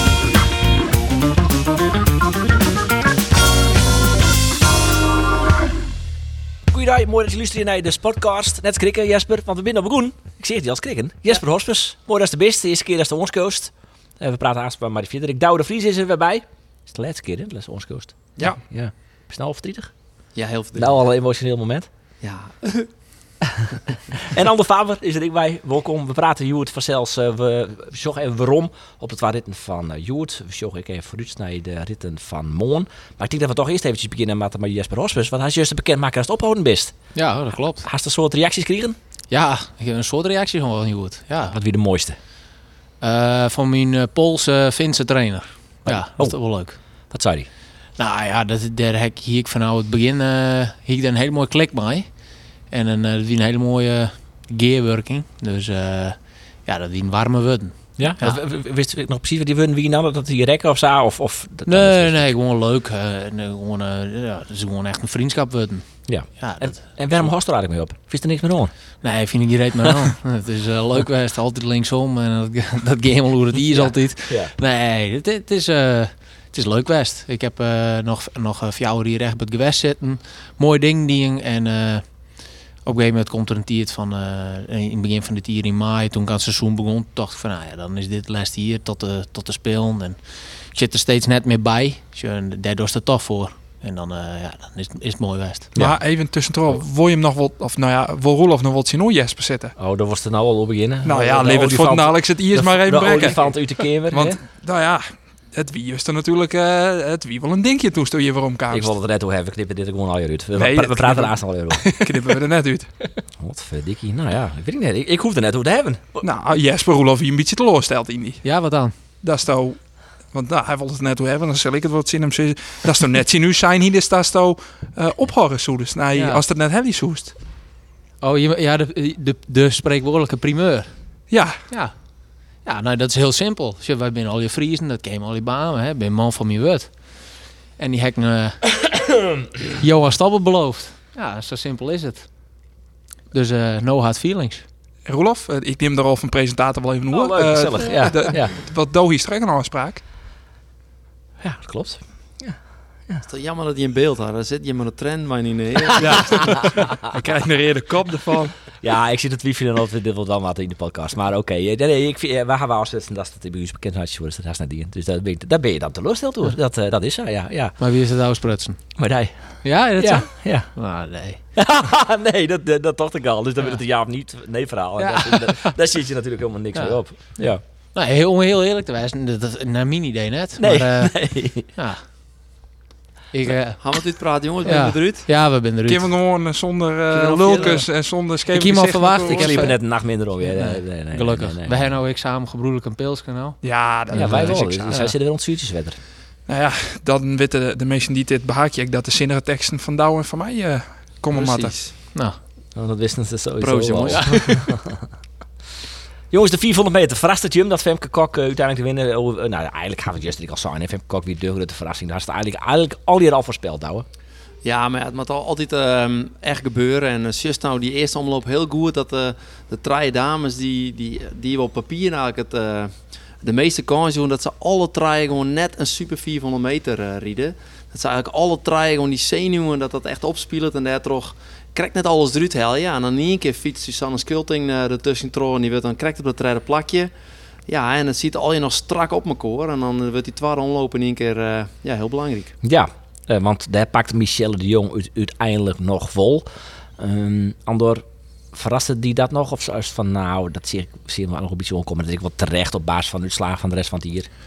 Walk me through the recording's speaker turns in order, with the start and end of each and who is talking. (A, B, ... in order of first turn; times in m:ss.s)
0:06.7-0:20.2 A
0:20.3-0:21.0 B
0:20.7-0:21.9 A
0:22.2-0:22.9 B
0:24.2-0:37.1 A
0:37.1-0:37.9 C
0:37.8-0:39.0 A
0:39.3-0:41.6 C
0:41.5-0:42.2 A
0:43.0-0:46.8 C
0:45.8-0:47.5 A
0:47.9-0:58.4 C
0:58.0-1:02.3 A
1:01.6-1:07.3 C
1:06.0-1:08.7 A
1:09.0-1:35.7 C
1:13.7-1:14.5 A
1:35.7-1:36.0 A
1:35.8-1:39.7 D
1:39.8-1:44.4 A
1:41.0-1:48.9 D
1:48.7-1:52.0 A
1:50.6-1:52.9 D
1:53.2-1:56.2 A
1:56.2-2:07.3 D
1:58.4-1:58.9 C
2:06.1-2:06.4 C
2:08.2-2:18.9 C
2:11.3-2:11.6 D
2:19.7-2:22.4 C
2:23.3-2:24.6 C
2:25.0-2:30.0 D
2:27.1-2:28.5 A
2:31.4-2:33.2 A
2:33.2-2:36.4 B
2:36.0-2:38.7 D
2:38.7-2:47.8 A
2:47.8-2:48.9 C
2:49.0-2:50.8 A
2:49.6-2:51.4 C
2:51.6-2:57.6 A
2:55.0-2:55.8 C
2:56.7-3:02.0 C
3:00.6-3:01.7 A
3:03.3-3:03.8 C
3:03.8-3:05.2 B
3:04.6-3:06.1 C
3:05.8-3:09.8 D
3:07.1-3:07.8 B
3:07.5-3:07.8 C
3:08.5-3:15.1 C
3:09.2-3:12.0 A
3:13.6-3:15.1 D
3:14.1-3:16.0 A
3:16.5-3:21.8 D
3:21.3-3:21.9 B
3:22.7-3:25.0 A
3:23.6-3:24.4 B
3:26.3-3:34.0 A
3:34.6-3:57.1 B
3:57.7-4:02.5 B
4:02.6-4:06.5 A
4:07.0-4:14.3 A